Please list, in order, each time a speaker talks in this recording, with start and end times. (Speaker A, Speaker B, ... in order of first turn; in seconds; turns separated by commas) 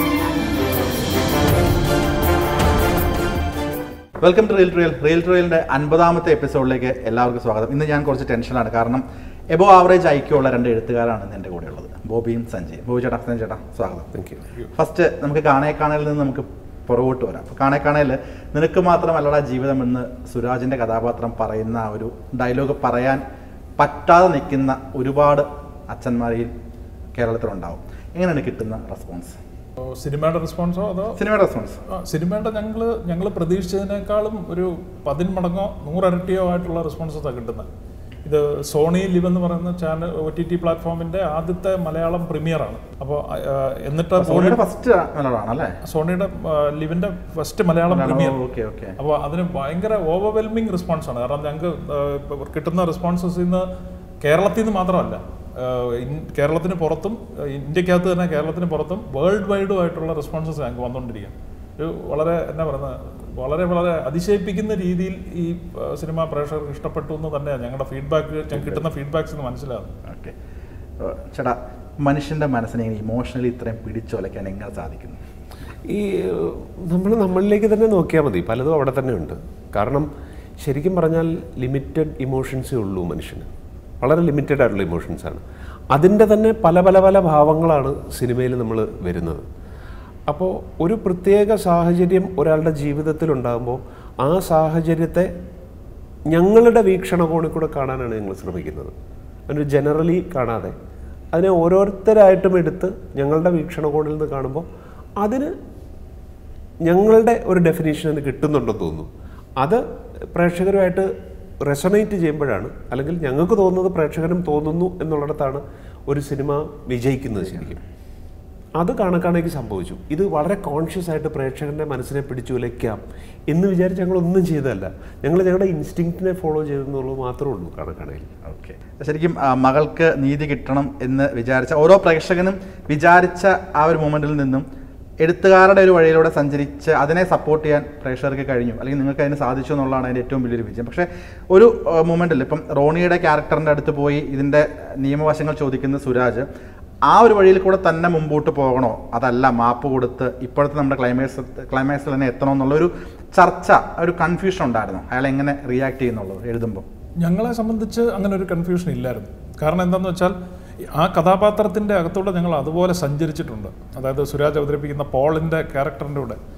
Speaker A: 4.2-14.1, Speaker B: 14.1-14.5, Speaker A: 14.7-23.2, Speaker A: 23.8-26.5, Speaker A: 27.1-29.4, Speaker C: 29.8-31.2, Speaker A: 31.1-31.8, Speaker C: 31.9-37.7, Speaker C: 38.2-44.6, Speaker A: 44.2-45.7, Speaker C: 45.8-48.4, Speaker A: 47.9-49.0, Speaker C: 49.0-53.7, Speaker C: 54.2-69.9, Speaker A: 70.0-70.3, Speaker A: 71.0-75.2, Speaker B: 75.9-80.1, Speaker B: 80.6-83.5, Speaker B: 84.0-89.4, Speaker B: 90.3-95.3, Speaker B: 96.3-98.9, Speaker B: 99.5-100.8, Speaker B: 101.3-104.6, Speaker B: 105.2-105.5, Speaker B: 106.8-111.1, Speaker B: 111.6-117.8, Speaker B: 118.8-128.3, Speaker A: 128.4-134.6, Speaker A: 135.2-146.5, Speaker A: 147.1-156.8, Speaker C: 157.2-160.3, Speaker C: 160.9-166.4